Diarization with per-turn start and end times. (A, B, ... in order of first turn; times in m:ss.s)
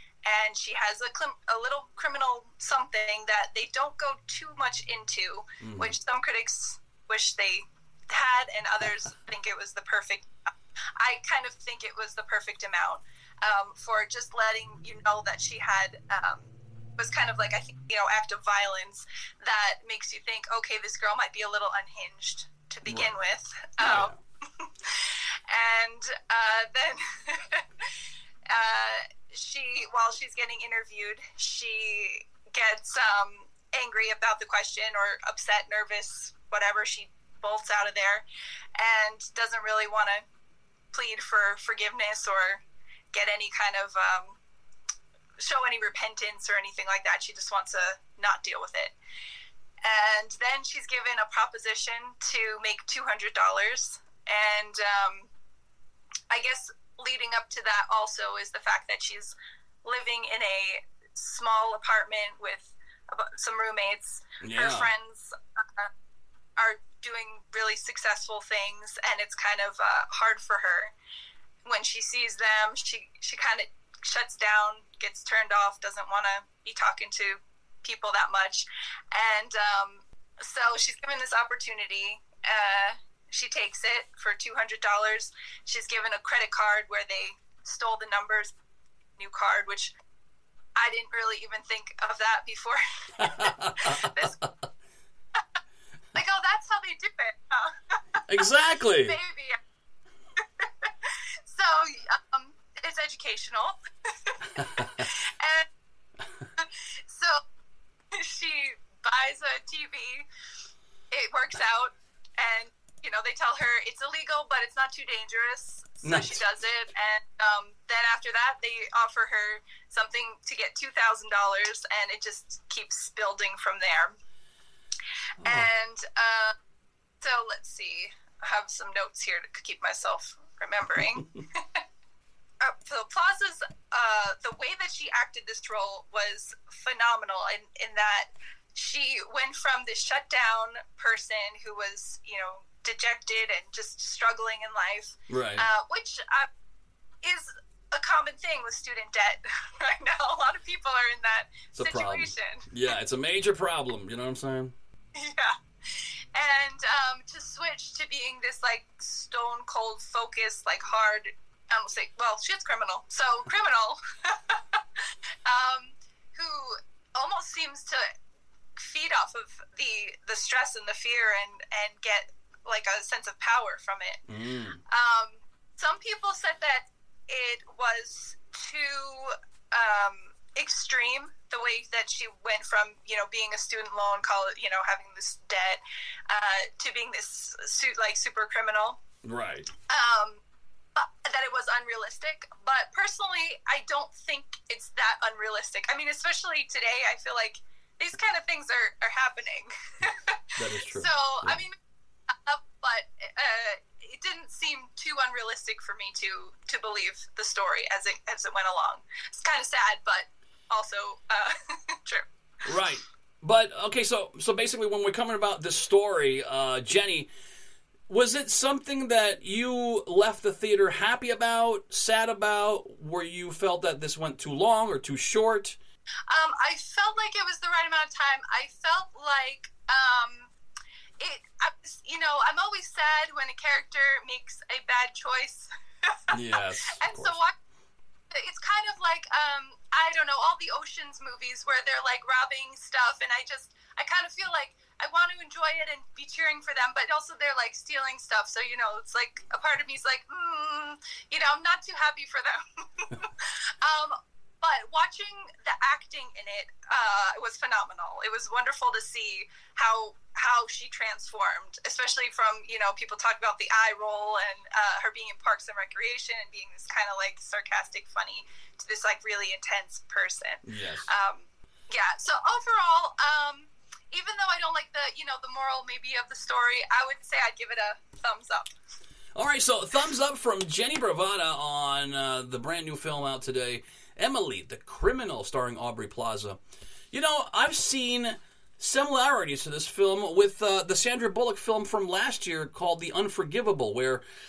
0:00.2-0:27.9 A
0:05.6-0:06.0 B
0:22.9-0:23.1 B
0:23.8-0:24.2 B
0:28.5-0:38.2 A
0:38.8-0:40.2 A
0:40.9-0:44.4 A
0:45.4-0:49.0 A
0:49.8-0:55.3 A
0:56.3-1:05.9 A
1:04.4-1:04.9 B
1:06.6-1:10.9 A
1:11.6-1:28.5 A
1:29.2-1:30.0 A
1:30.8-1:34.4 A
1:33.2-1:34.4 B
1:36.1-1:38.4 A
1:38.3-1:39.2 B
1:39.0-1:39.6 A
1:40.6-1:45.7 A
1:44.6-1:45.0 B
1:46.6-1:47.4 A
1:48.1-1:50.3 A
1:51.1-2:04.2 A
1:56.0-1:56.4 B
2:05.4-2:05.7 B
2:05.4-2:06.5 A
2:07.2-2:11.8 A
2:12.6-2:26.5 A
2:25.3-2:25.7 B
2:27.2-2:32.7 A
2:31.7-2:34.8 B
2:35.2-2:48.1 A
2:48.8-2:54.2 A
2:54.3-2:54.8 B
2:54.9-3:09.0 A
3:09.2-3:09.7 B
3:09.9-3:10.4 A
3:11.0-3:21.8 A
3:20.6-3:21.6 B
3:22.3-3:32.2 A
3:32.6-3:37.3 B
3:38.1-3:45.8 B
3:46.3-3:50.5 A
3:51.2-3:57.5 A
3:56.3-3:57.4 B
3:58.3-4:38.7 A
4:30.7-4:31.1 B
4:39.4-4:46.6 B
4:47.1-4:54.2 B